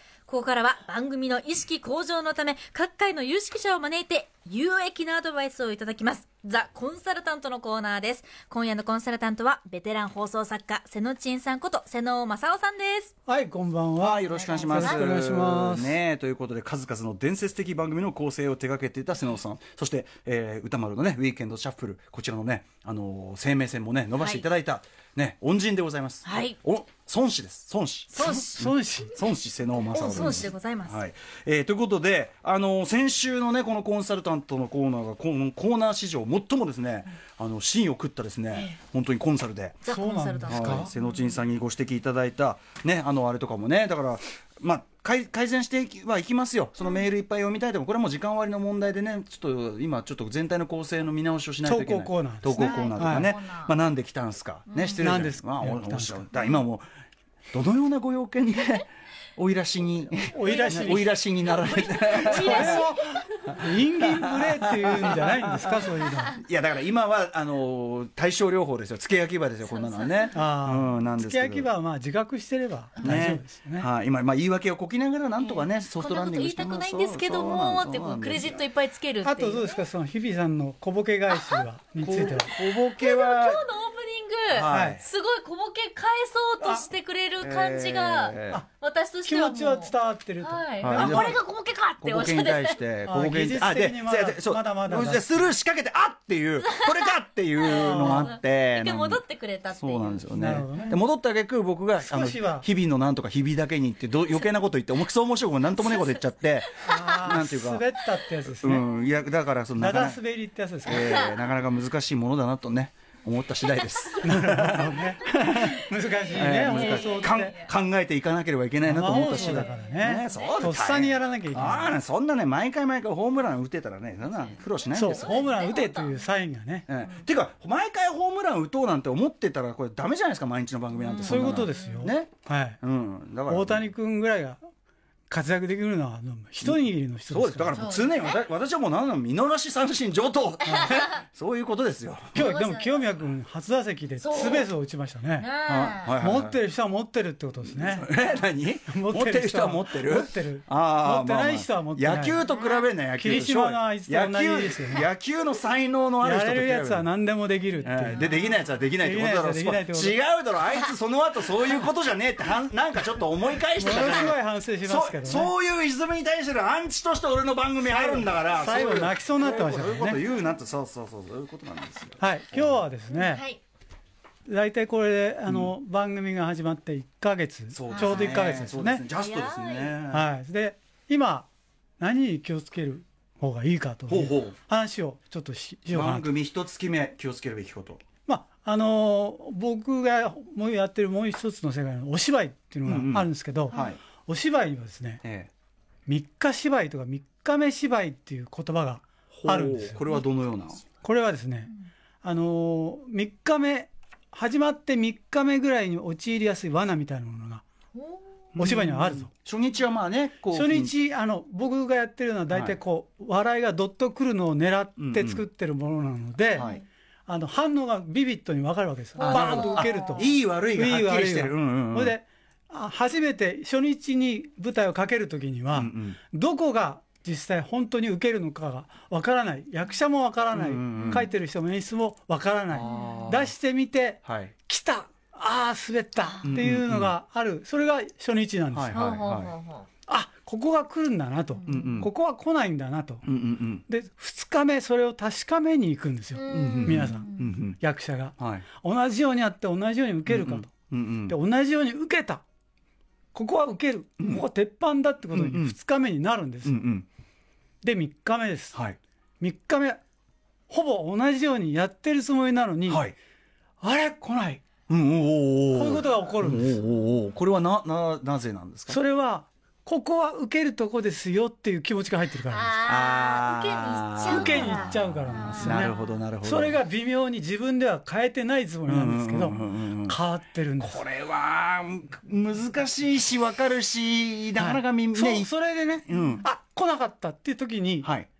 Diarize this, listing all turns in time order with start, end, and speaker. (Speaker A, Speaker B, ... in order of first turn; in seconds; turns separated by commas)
Speaker A: 0.3-13.1, Speaker B: 13.3-16.0, Speaker C: 14.0-39.8, Speaker A: 14.3-15.0, Speaker A: 24.2-24.4, Speaker A: 26.2-26.6, Speaker A: 28.1-28.6, Speaker B: 28.2-29.2, Speaker A: 29.8-31.0, Speaker A: 39.8-41.4, Speaker B: 39.9-40.9, Speaker C: 40.5-56.9, Speaker B: 51.6-53.3, Speaker A: 52.5-53.7, Speaker A: 54.7-55.0, Speaker B: 55.0-56.2, Speaker C: 57.5-62.9, Speaker B: 60.3-61.1, Speaker A: 60.4-63.4, Speaker B: 62.2-66.4, Speaker C: 63.6-71.7, Speaker A: 69.6-70.3, Speaker B: 70.3-73.9, Speaker C: 73.0-78.6, Speaker A: 75.4-79.8, Speaker B: 79.2-82.5, Speaker A: 81.3-81.6, Speaker C: 82.0-83.6, Speaker A: 82.3-92.8, Speaker C: 84.5-85.0, Speaker B: 84.7-85.0, Speaker B: 86.6-86.9, Speaker C: 87.4-88.6, Speaker B: 89.2-91.4, Speaker C: 90.8-91.4, Speaker C: 92.0-107.8, Speaker B: 93.0-95.5, Speaker A: 96.7-96.9, Speaker A: 97.6-100.9, Speaker B: 97.6-98.3, Speaker B: 100.3-101.0, Speaker B: 102.0-102.7, Speaker B: 106.8-108.9, Speaker C: 108.5-110.2, Speaker B: 109.8-111.2, Speaker C: 110.8-115.8, Speaker A: 110.9-111.3, Speaker A: 113.8-114.1, Speaker B: 114.2-117.6, Speaker C: 116.3-125.5, Speaker A: 116.5-117.7, Speaker B: 118.8-122.0, Speaker A: 119.0-120.7, Speaker A: 124.2-126.2, Speaker B: 124.9-126.9, Speaker C: 126.9-133.9, Speaker A: 130.9-132.1, Speaker B: 131.2-132.8, Speaker B: 133.5-134.6, Speaker B: 135.3-137.8, Speaker C: 136.6-142.5, Speaker A: 137.7-138.4, Speaker B: 140.7-140.9, Speaker A: 140.8-141.2, Speaker B: 142.3-145.5, Speaker A: 142.4-143.1, Speaker A: 144.2-144.7, Speaker A: 145.4-146.2, Speaker C: 145.7-146.6, Speaker B: 146.2-148.1, Speaker C: 147.6-157.1, Speaker B: 148.9-152.4, Speaker A: 152.4-152.9, Speaker B: 153.2-155.1, Speaker B: 156.2-158.3, Speaker C: 157.8-172.9, Speaker A: 158.2-158.7, Speaker B: 159.0-160.2, Speaker B: 163.8-165.5, Speaker B: 167.8-170.2, Speaker B: 172.2-173.4, Speaker A: 173.1-173.6, Speaker B: 174.5-179.0, Speaker C: 175.5-175.7, Speaker C: 177.7-180.3, Speaker A: 177.9-178.4, Speaker A: 179.1-180.0, Speaker B: 180.1-186.3, Speaker C: 184.1-184.6, Speaker C: 185.9-188.0, Speaker B: 188.3-195.2, Speaker C: 192.8-194.0, Speaker C: 195.2-195.5, Speaker B: 196.1-200.0, Speaker C: 199.3-200.8, Speaker B: 201.0-201.7, Speaker B: 202.2-207.6, Speaker A: 207.9-208.2, Speaker C: 208.6-210.9, Speaker B: 208.6-209.3, Speaker B: 210.5-216.7, Speaker C: 212.5-212.8, Speaker C: 215.0-215.5, Speaker A: 216.6-216.8, Speaker C: 216.6-216.8, Speaker B: 217.3-239.0, Speaker A: 219.2-220.3, Speaker C: 219.2-222.2, Speaker C: 225.7-226.2, Speaker C: 230.5-231.3, Speaker C: 232.7-233.5, Speaker A: 232.8-233.2, Speaker C: 234.2-234.5, Speaker A: 236.2-236.6, Speaker C: 236.4-237.2, Speaker C: 238.7-239.5, Speaker A: 238.9-239.9, Speaker B: 240.1-243.2, Speaker A: 241.6-241.9, Speaker C: 241.7-242.1, Speaker C: 243.2-243.8, Speaker B: 243.9-247.3, Speaker A: 246.3-247.6, Speaker C: 246.5-247.8, Speaker B: 247.8-250.7, Speaker C: 248.4-248.7, Speaker C: 250.3-251.4, Speaker B: 251.3-252.4, Speaker B: 253.3-256.8, Speaker C: 254.2-254.4, Speaker C: 255.3-255.8, Speaker C: 256.6-257.1, Speaker B: 257.8-258.8, Speaker B: 259.4-260.0, Speaker B: 260.7-263.1, Speaker C: 262.9-263.2, Speaker B: 263.8-264.6, Speaker C: 264.9-269.0, Speaker B: 265.7-266.8, Speaker B: 268.9-272.7, Speaker A: 272.5-276.1, Speaker C: 272.9-276.8, Speaker B: 274.2-281.0, Speaker C: 278.9-280.2, Speaker C: 280.8-285.5, Speaker B: 284.6-288.1, Speaker C: 286.1-286.5, Speaker C: 288.0-288.3